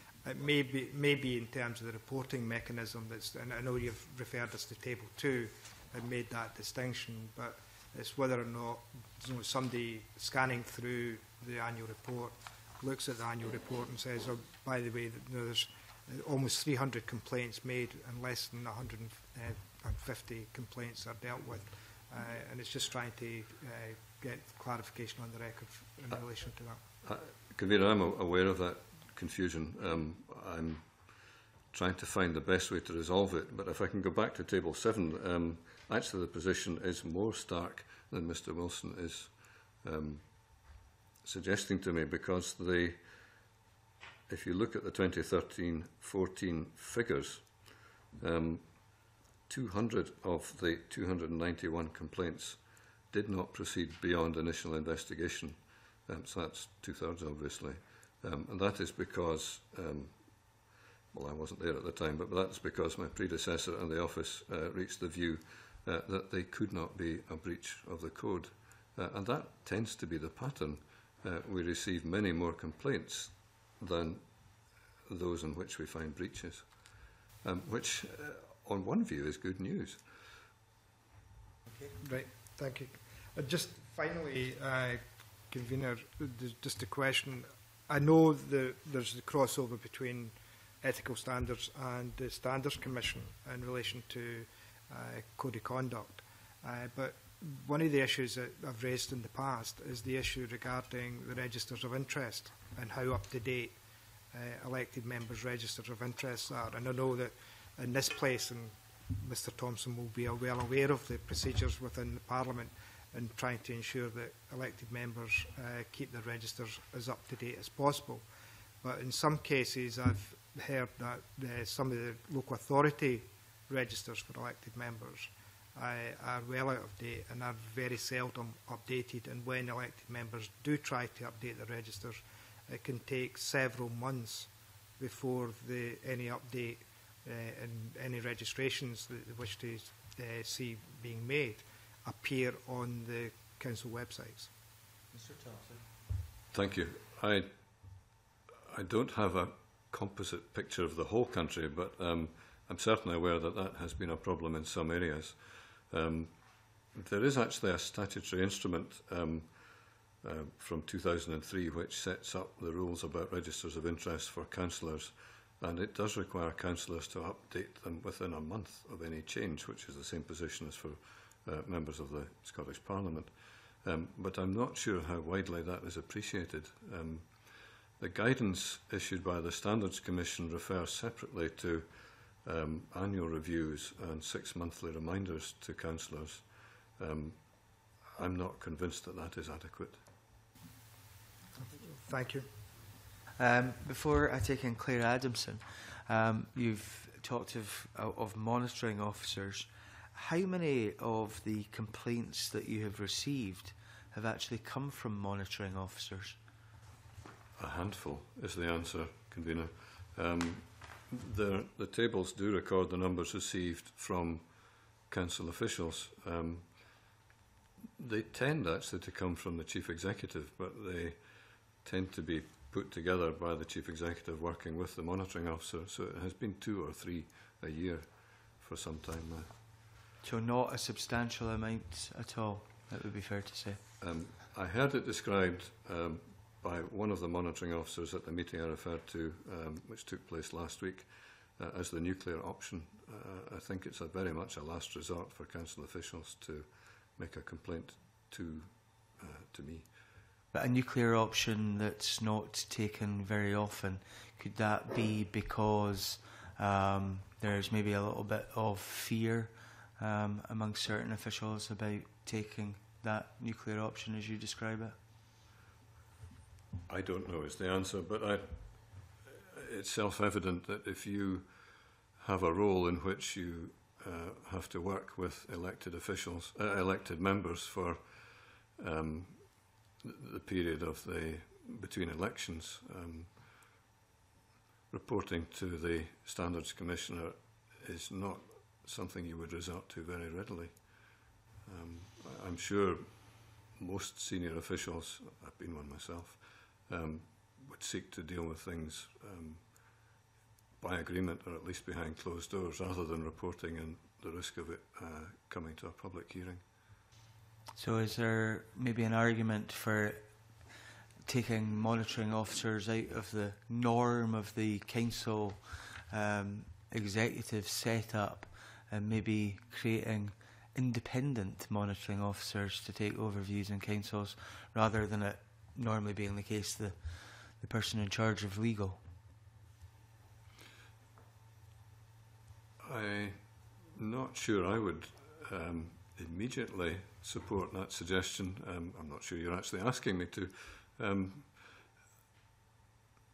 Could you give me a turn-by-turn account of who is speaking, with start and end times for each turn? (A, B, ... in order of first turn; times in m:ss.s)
0:00.2-0:26.8 A
0:27.0-0:31.2 B
0:31.7-0:40.6 B
0:41.2-0:43.1 B
0:44.3-1:20.0 B
1:21.9-1:43.7 A
1:44.3-1:58.2 A
1:58.8-2:24.5 A
2:26.5-2:27.5 B
2:28.7-2:36.4 B
2:36.9-3:10.0 B
3:11.5-3:12.5 A
3:13.4-3:26.4 C
3:27.6-3:37.1 B
3:38.0-3:49.5 B
3:50.2-3:53.8 C
3:54.0-4:09.9 B
4:10.5-4:25.0 C
4:26.9-4:43.7 B
4:44.9-5:00.2 B
5:00.8-5:06.6 B
5:07.8-5:10.4 C
5:11.2-5:29.0 C
5:32.8-5:41.8 B